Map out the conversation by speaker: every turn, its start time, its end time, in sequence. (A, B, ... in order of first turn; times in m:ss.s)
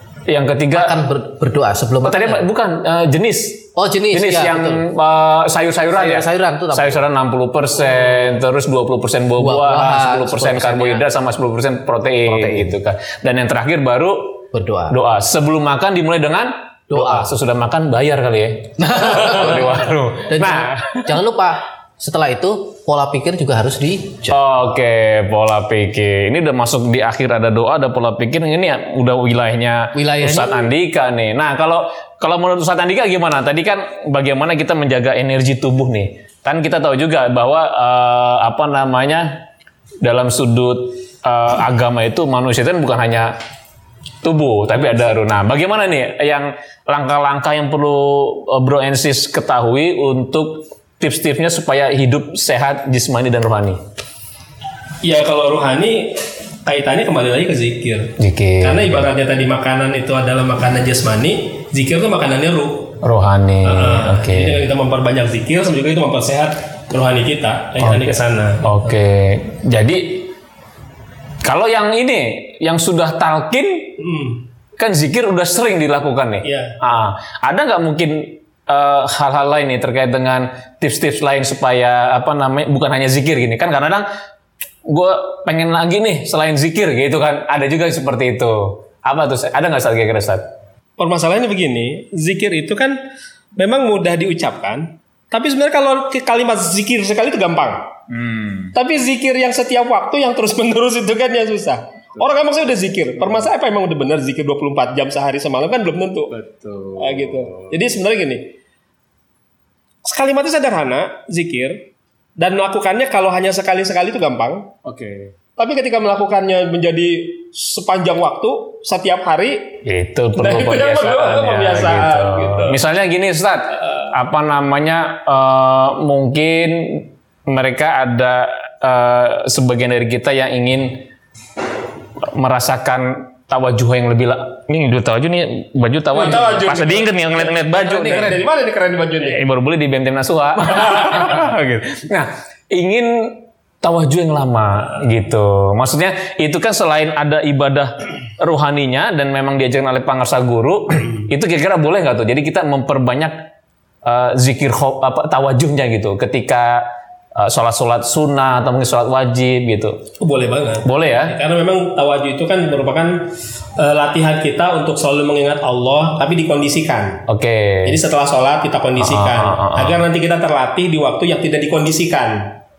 0:00.3-0:01.0 A
0:00.7-0:02.5 B
0:02.0-0:21.1 A
0:03.8-0:04.8 B
0:05.9-0:07.0 B
0:09.4-0:11.0 B
0:12.3-0:12.8 B
0:14.5-0:14.9 B
0:16.9-0:17.3 B
0:18.8-0:24.7 B
0:24.3-0:39.4 A
0:29.9-0:30.7 B
0:40.0-0:43.3 A
0:44.2-0:53.8 A
0:55.0-1:02.9 C
0:58.2-0:59.0 A
1:03.0-1:04.7 A
1:03.6-1:08.8 C
1:07.8-1:10.2 A
1:11.4-1:13.9 A
1:14.0-1:14.4 C
1:14.8-1:24.0 A
1:16.4-1:16.7 C
1:24.9-1:30.4 A
1:31.0-1:33.0 C
1:33.6-1:37.9 C
1:38.1-1:38.7 A
1:38.7-1:46.3 C
1:46.3-1:47.8 A
1:47.0-1:48.5 C
1:50.0-1:51.8 C
1:52.4-1:54.7 C
1:54.8-1:55.3 A
1:55.6-1:59.8 C
1:59.8-2:11.0 A
2:00.4-2:02.8 C
2:12.2-2:18.4 A
2:16.1-2:19.4 C
2:19.2-2:33.3 A
2:20.7-2:21.2 C
2:34.0-2:36.8 A
2:37.4-2:40.0 A
2:40.2-2:47.2 C
2:40.8-2:41.4 A
2:47.3-2:48.0 A
2:47.8-2:52.5 C
2:49.0-2:50.0 A